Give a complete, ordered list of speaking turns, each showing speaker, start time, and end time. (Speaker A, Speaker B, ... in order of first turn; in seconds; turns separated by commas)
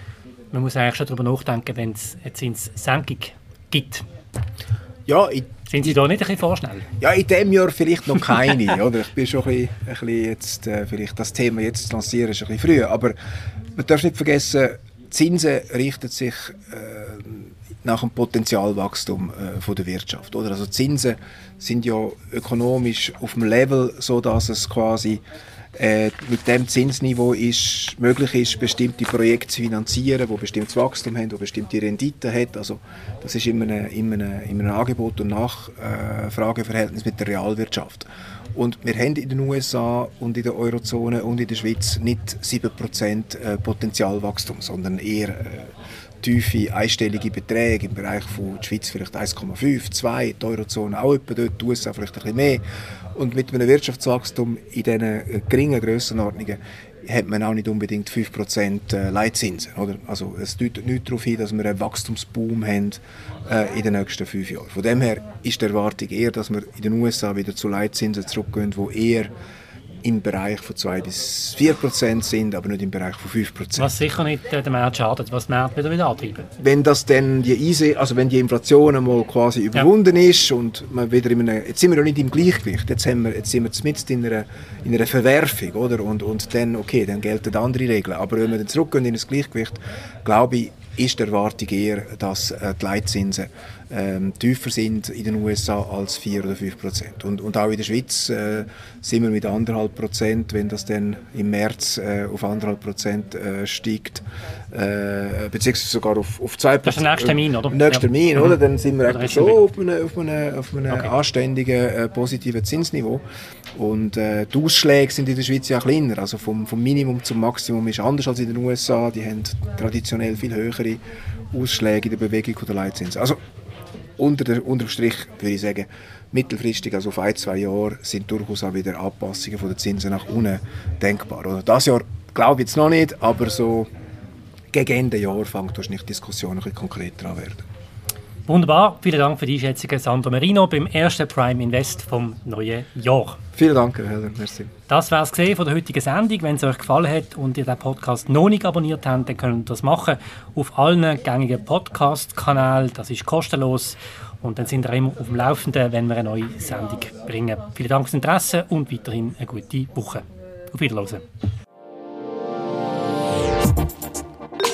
Speaker A: 0.5-4.0, Speaker B: 5.1-5.5, Speaker A: 5.7-6.9, Speaker B: 7.0-13.2, Speaker B: 13.8-25.2, Speaker B: 25.8-45.7, Speaker B: 46.2-52.6, Speaker B: 53.1-69.3, Speaker B: 70.0-74.0, Speaker A: 73.8-76.5, Speaker B: 76.6-113.2, Speaker A: 106.8-109.6, Speaker B: 113.8-121.0, Speaker B: 121.5-123.4, Speaker B: 124.2-133.9, Speaker B: 134.7-137.7, Speaker A: 138.5-143.4, Speaker B: 143.6-144.7, Speaker A: 144.9-161.2